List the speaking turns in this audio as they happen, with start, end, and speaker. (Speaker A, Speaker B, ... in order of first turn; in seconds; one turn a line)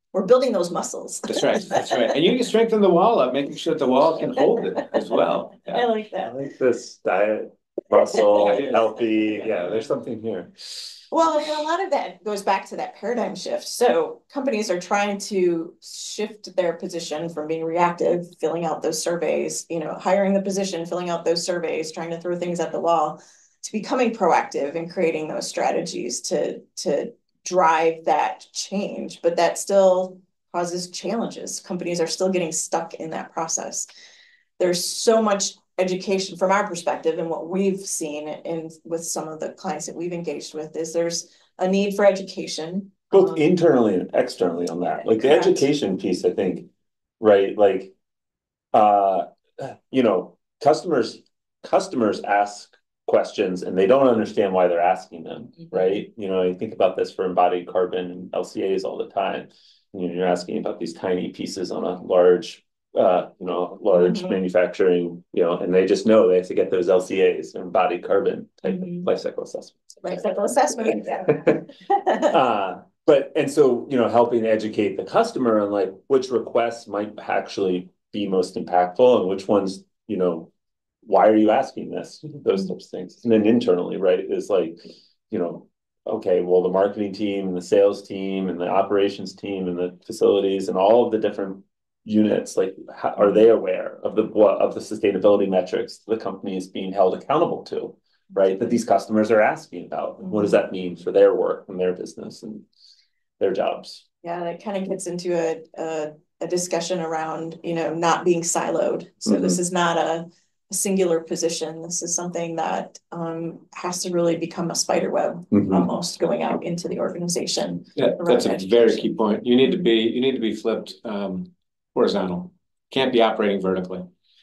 Speaker A: 0.1-2.1
Speaker B: 1.3-5.9
Speaker A: 5.7-6.3
Speaker C: 6.2-10.9
Speaker B: 8.2-9.9
Speaker A: 11.1-33.9
Speaker A: 34.6-43.5
Speaker C: 43.1-46.7
Speaker A: 45.2-45.6
Speaker C: 47.2-47.9
Speaker C: 48.7-69.9
Speaker A: 63.9-64.4
Speaker A: 68.6-69.1
Speaker A: 70.0-72.3
Speaker C: 71.3-71.6
Speaker C: 72.3-80.5
Speaker C: 81.0-102.6
Speaker A: 100.2-100.6
Speaker C: 103.4-104.0
Speaker A: 104.2-119.1
Speaker C: 109.2-109.6
Speaker C: 115.5-115.9
Speaker B: 118.0-124.0